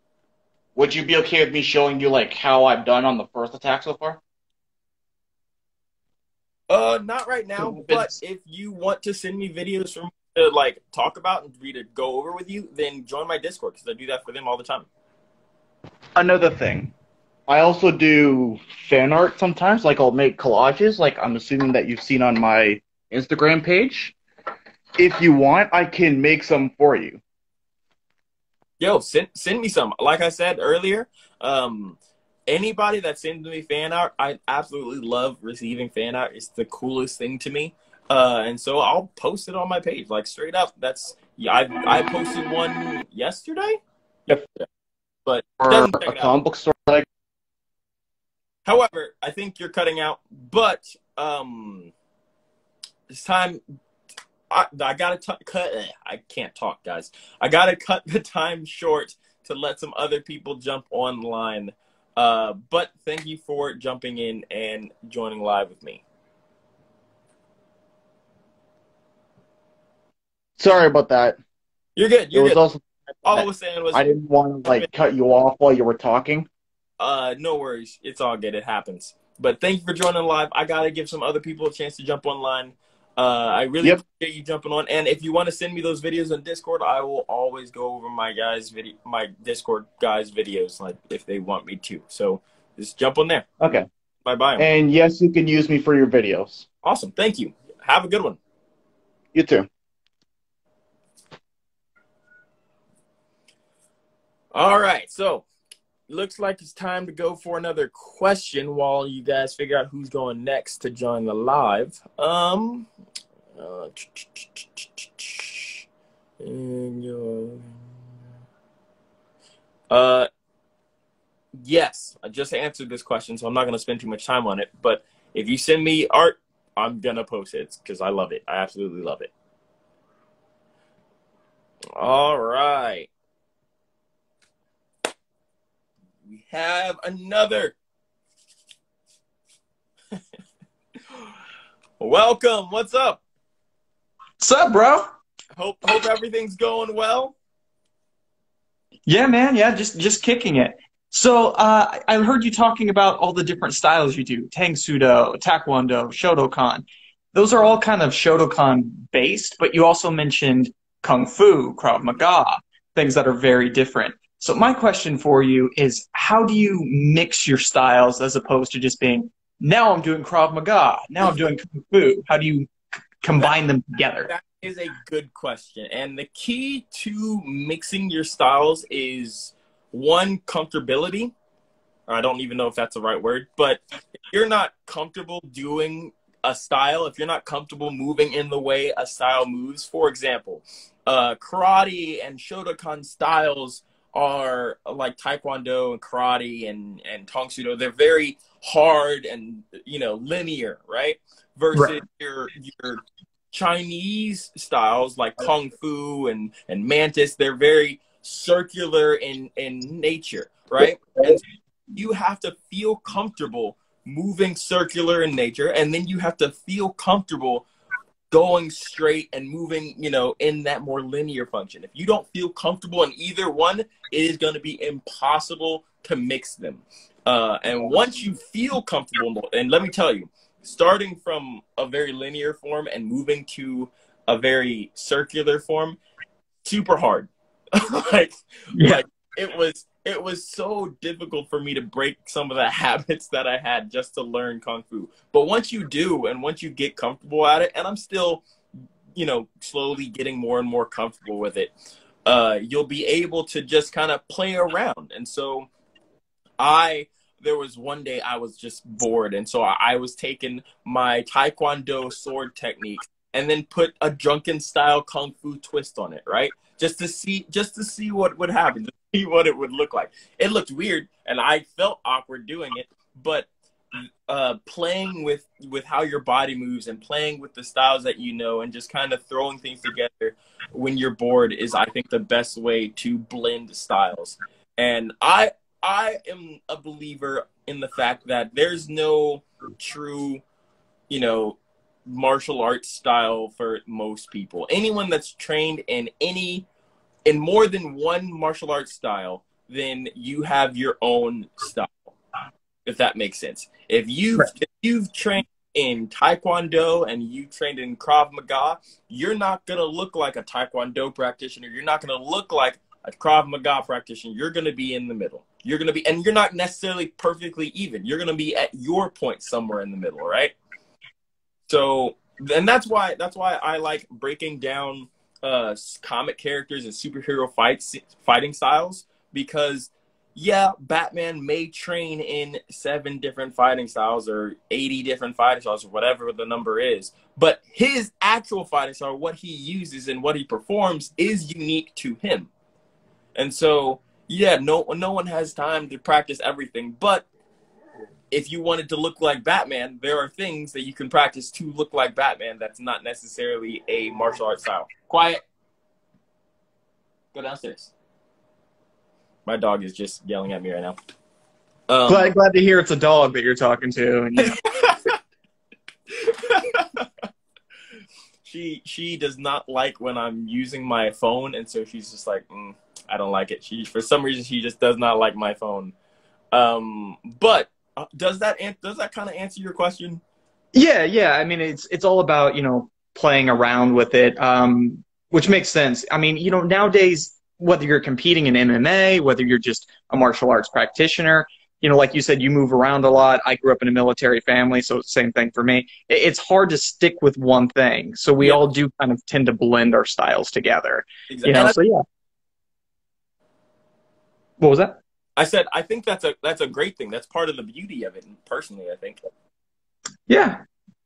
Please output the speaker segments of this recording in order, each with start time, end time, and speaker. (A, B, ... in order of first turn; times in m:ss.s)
0:00.8-0:04.2 A
0:06.7-0:14.9 B
0:07.6-0:08.1 A
0:16.2-0:16.9 A
0:17.5-0:24.2 A
0:25.0-0:27.2 A
0:28.8-0:43.8 B
0:45.3-0:46.3 B
0:45.6-0:47.1 A
0:48.6-0:51.9 B
0:53.1-0:53.6 B
0:54.5-1:06.0 B
1:10.6-1:11.4 A
1:12.0-1:12.6 B
1:12.3-1:16.5 A
1:13.2-1:14.1 B
1:17.0-1:33.5 B
1:33.6-1:33.9 A
1:34.2-1:34.7 B
1:34.6-1:36.7 A
1:36.8-1:38.4 B
1:39.3-1:39.7 A
1:44.5-1:45.5 B
1:46.1-1:52.9 B
1:53.6-1:55.8 B
1:56.4-1:57.8 B
1:59.9-2:00.3 B
2:01.6-2:09.3 B
2:12.0-2:13.1 B
2:16.2-2:17.8 B
2:22.0-2:23.2 B
2:24.4-2:25.1 C
2:25.6-2:27.4 B
2:29.1-2:52.7 C
2:53.2-2:54.3 C
2:54.2-3:01.3 B
3:02.1-3:31.4 B
3:21.7-3:22.0 C
3:31.9-3:37.6 B
3:38.3-3:56.0 B
3:56.6-4:08.4 B
3:58.8-3:59.0 C
4:09.2-4:11.7 B
4:12.3-4:15.7 B
4:16.6-4:50.4 B
4:51.1-4:56.7 B
4:57.3-5:02.1 B
5:02.8-5:20.6 B
5:21.7-5:42.5 B
5:43.4-5:47.3 B
5:48.3-5:55.4 B
5:57.3-5:57.9 B
5:59.4-6:01.0 B
6:01.9-6:02.4 B
6:02.1-6:04.6 C
6:04.4-6:05.2 B
6:06.2-6:07.1 B
6:08.4-6:15.9 B
6:16.5-6:20.2 B
6:20.7-6:42.0 C
6:41.3-6:41.8 B
6:44.6-6:45.0 C
6:45.4-6:49.2 B
6:50.3-6:50.6 C